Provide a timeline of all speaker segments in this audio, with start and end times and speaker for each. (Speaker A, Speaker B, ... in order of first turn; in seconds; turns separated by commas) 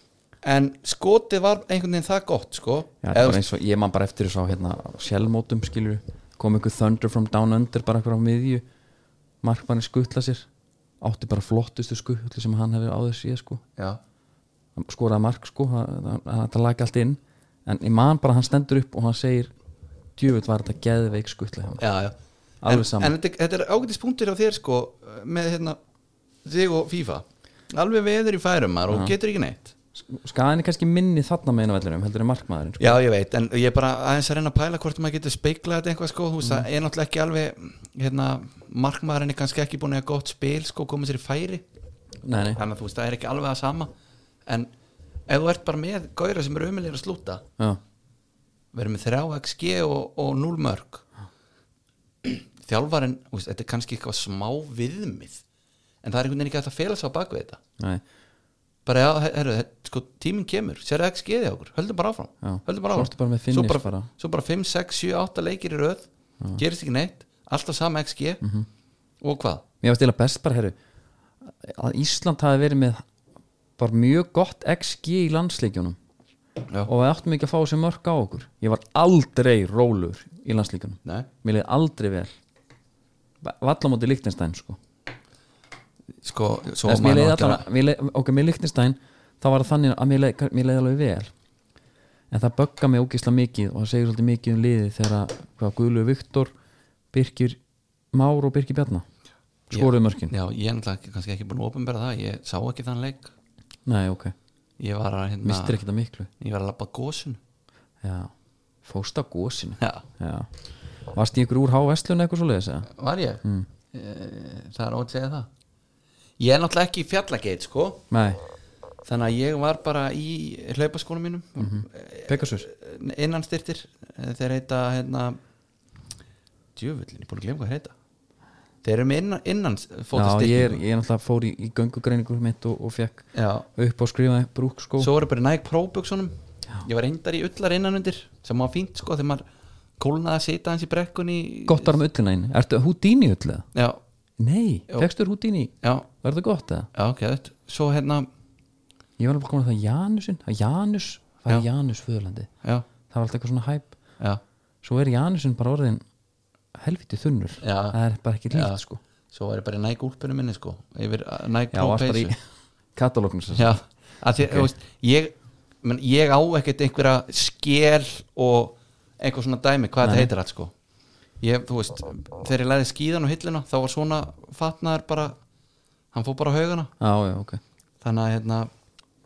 Speaker A: 0.4-3.5, Speaker B: 3.0-8.6, Speaker B: 9.4-10.5, Speaker B: 11.0-13.6, Speaker B: 14.8-19.5, Speaker B: 20.2-21.8, Speaker A: 21.8-25.8, Speaker B: 22.6-23.1, Speaker A: 26.4-29.7, Speaker B: 28.9-29.1, Speaker B: 29.9-33.0, Speaker A: 32.8-41.6, Speaker B: 42.2-42.6, Speaker A: 42.5-43.9, Speaker A: 44.5-44.7, Speaker A: 45.3-47.4, Speaker A: 48.7-51.0, Speaker A: 52.2-55.4, Speaker A: 56.0-57.6, Speaker A: 58.9-68.4, Speaker B: 62.4-64.1, Speaker B: 68.4-68.7, Speaker A: 69.2-69.6, Speaker B: 69.8-70.8, Speaker B: 71.4-73.0, Speaker B: 73.8-76.0, Speaker B: 76.8-82.3, Speaker B: 83.4-84.8, Speaker A: 86.2-87.7, Speaker B: 86.8-91.3, Speaker B: 92.3-96.5, Speaker B: 97.1-97.6, Speaker B: 98.1-99.0, Speaker B: 99.7-100.3, Speaker A: 99.7-103.3, Speaker B: 103.8-104.3, Speaker A: 104.8-105.8, Speaker B: 105.4-106.3, Speaker A: 106.4-107.4, Speaker B: 108.0-108.3, Speaker B: 108.8-110.5, Speaker A: 109.8-110.0, Speaker B: 111.1-112.9, Speaker A: 112.9-115.5, Speaker B: 113.4-113.7, Speaker A: 116.4-118.0, Speaker B: 118.1-118.4, Speaker A: 119.0-125.4, Speaker B: 121.6-122.7, Speaker A: 126.8-127.9, Speaker A: 128.8-130.8, Speaker B: 130.1-135.1, Speaker A: 133.3-133.7, Speaker A: 135.0-139.4, Speaker A: 140.0-142.0, Speaker B: 141.7-143.7, Speaker A: 143.7-144.0, Speaker B: 144.4-146.9, Speaker A: 145.8-146.1, Speaker A: 146.9-148.3, Speaker B: 149.2-152.5, Speaker B: 153.1-153.9, Speaker B: 154.8-156.0, Speaker B: 156.8-159.0, Speaker A: 157.6-158.0, Speaker A: 158.5-158.8, Speaker A: 159.3-162.3, Speaker B: 161.7-162.4, Speaker B: 162.9-163.8, Speaker A: 163.5-170.7, Speaker B: 170.0-170.3, Speaker A: 171.4-175.4, Speaker A: 176.1-176.9, Speaker B: 177.0-177.6, Speaker A: 178.0-178.7